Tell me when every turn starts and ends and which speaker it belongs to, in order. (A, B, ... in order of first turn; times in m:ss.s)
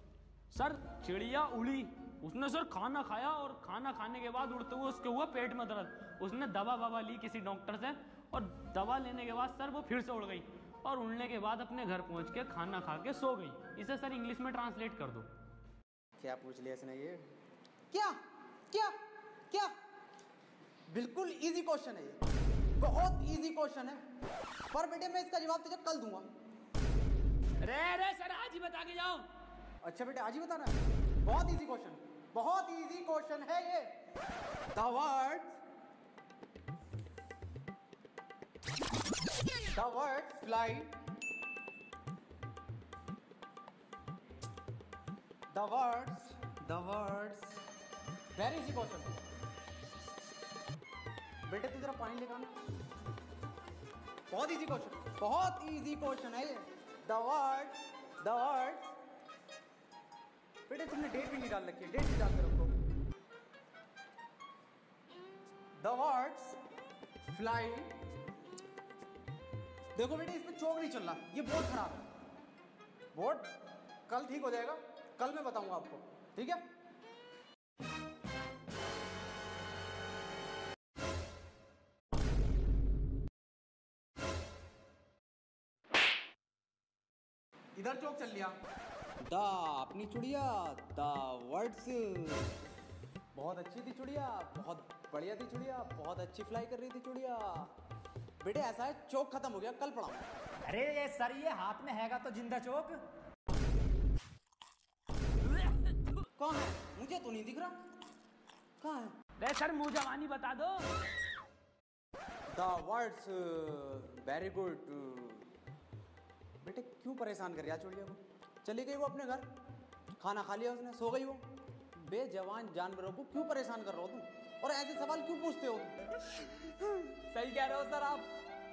0:00.5-0:15.3 A
0:16.2-0:17.3 B
0:18.7-0:19.0 B
0:20.9-0:22.2 B
0:22.8-0:24.0 B
0:24.7-0:26.2 B
0:27.6-0:29.2 A
0:29.8-0:33.9 B
0:34.7-0:35.6 B
0:39.7-0:40.9 B
0:45.5-0:47.6 B
0:48.3-0:49.1 B
0:51.5-0:52.5 B
0:54.3-0:58.9 B
1:00.7-1:02.7 B
1:05.8-1:06.6 B
1:07.3-1:08.0 B
1:09.9-1:12.0 B
1:13.1-1:13.5 B
1:14.1-1:16.6 B
1:27.8-1:28.6 B
1:29.2-1:32.6 B
1:33.3-1:37.7 B
1:38.4-1:40.2 B
1:40.6-1:43.0 C
1:46.4-1:47.8 B
1:48.8-1:49.1 B
1:49.4-1:50.9 A
1:52.5-1:55.4 B
1:56.6-1:59.4 B
2:00.2-2:01.4 B
2:02.0-2:06.0 B
2:06.8-2:08.3 C